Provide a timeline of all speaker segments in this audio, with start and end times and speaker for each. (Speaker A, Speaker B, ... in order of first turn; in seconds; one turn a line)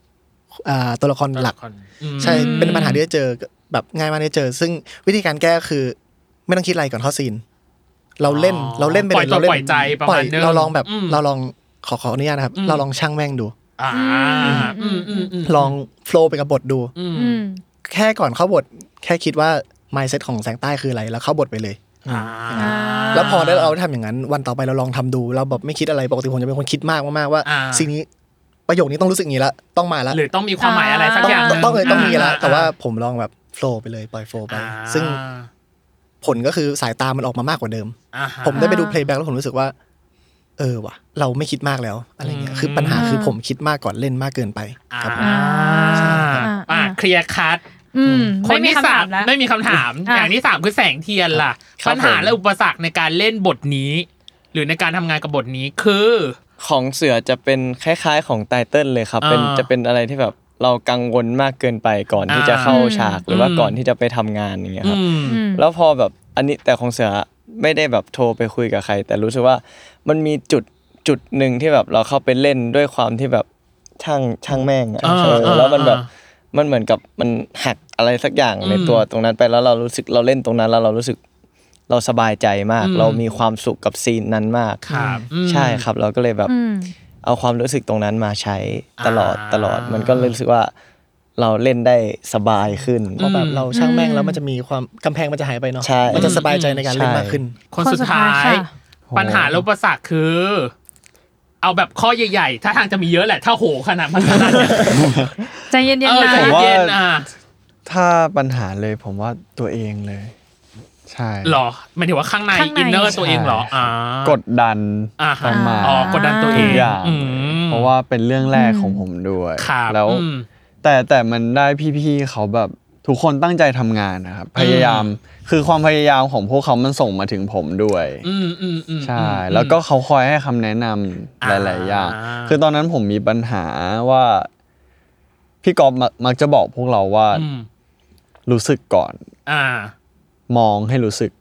Speaker A: 0.6-1.5
Speaker B: 1.3-3.0
Speaker A: 2.2-7.4
Speaker C: 2.2-3.0
Speaker A: 8.2-13.5
Speaker B: 8.2-11.2
Speaker B: 12.6-12.8
Speaker B: 13.8-15.7
Speaker C: 13.9-15.3
Speaker A: 14.4-14.7
Speaker A: 15.4-16.9
Speaker B: 16.9-17.4
Speaker C: 17.1-17.6
Speaker A: 17.9-28.1
Speaker B: 22.1-23.8
Speaker C: 22.6-23.4
Speaker B: 27.4-27.9
Speaker A: 28.7-30.2
Speaker B: 30.1-32.7
Speaker C: 30.6-32.3
Speaker A: 31.2-35.2
Speaker B: 34.5-35.5
Speaker A: 36.2-39.7
Speaker B: 38.1-38.8
Speaker C: 38.5-39.0
Speaker A: 40.6-45.3
Speaker B: 42.2-43.1
Speaker C: 42.9-43.4
Speaker B: 44.9-47.6
Speaker C: 45.2-47.0
Speaker A: 45.9-46.5
Speaker C: 47.9-49.3
Speaker B: 48.4-56.4
Speaker C: 50.0-50.3
Speaker A: 51.3-52.4
Speaker D: 56.6-73.5
Speaker B: 59.2-59.7
Speaker B: 62.3-63.8
Speaker C: 62.7-63.2
Speaker B: 64.8-65.4
Speaker C: 65.3-65.6
Speaker D: 74.0-81.2
Speaker B: 75.0-76.1
Speaker A: 75.1-75.5
Speaker B: 78.6-79.0
Speaker D: 81.9-84.8
Speaker B: 82.8-83.2
Speaker B: 84.9-85.8
Speaker A: 84.9-85.2
Speaker D: 85.4-86.5
Speaker C: 86.5-86.9
Speaker D: 87.2-90.7
Speaker B: 89.0-90.3
Speaker D: 91.4-93.2
Speaker A: 93.2-97.6
Speaker B: 93.2-93.7
Speaker C: 93.7-94.4
Speaker D: 95.8-97.4
Speaker B: 96.1-96.8
Speaker B: 97.7-100.7
Speaker C: 97.8-98.7
Speaker E: 99.1-99.6
Speaker B: 101.6-105.0
Speaker E: 104.7-105.5
Speaker C: 105.7-106.6
Speaker B: 106.0-107.3
Speaker E: 106.2-107.1
Speaker E: 107.8-110.3
Speaker E: 111.1-111.6
Speaker B: 111.4-114.4
Speaker C: 112.5-113.2
Speaker E: 113.1-120.3
Speaker B: 115.2-117.9
Speaker C: 115.5-116.9
Speaker C: 118.5-119.0
Speaker B: 119.6-120.5
Speaker E: 120.8-128.2
Speaker B: 124.5-125.1
Speaker B: 128.2-129.8
Speaker E: 129.0-134.5
Speaker B: 131.4-132.6
Speaker E: 135.6-137.5
Speaker B: 137.3-137.7
Speaker E: 138.4-139.2
Speaker B: 139.5-139.9
Speaker E: 140.5-141.3